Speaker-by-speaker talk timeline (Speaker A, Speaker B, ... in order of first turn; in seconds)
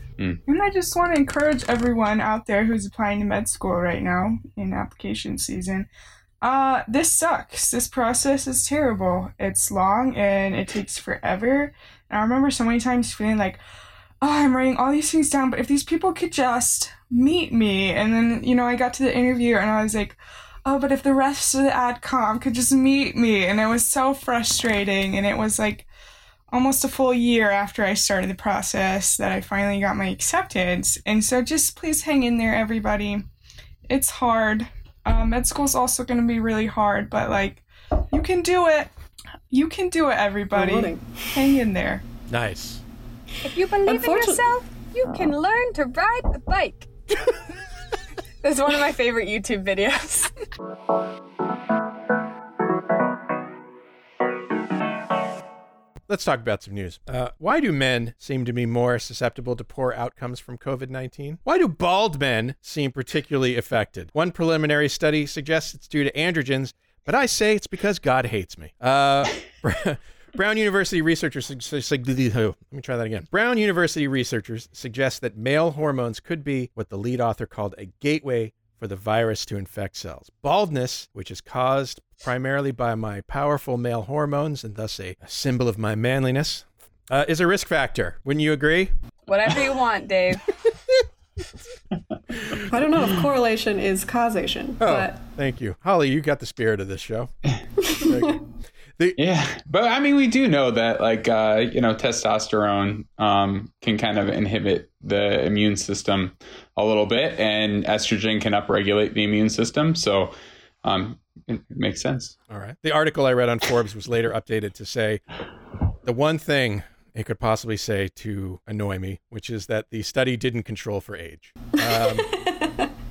Speaker A: 0.5-5.9, 6.4-13.6, 14.2-25.9, 26.5-33.2, 33.9-38.9, 39.5-42.0
Speaker B: 40.5-41.2, 43.8-44.4, 92.6-95.2, 121.8-122.9
Speaker C: 42.3-42.8, 56.1-88.9, 94.8-97.3, 97.9-98.4, 112.5-115.2, 116.0-122.3
Speaker D: 43.4-46.9, 48.4-50.3, 89.3-90.6
Speaker E: 99.2-112.3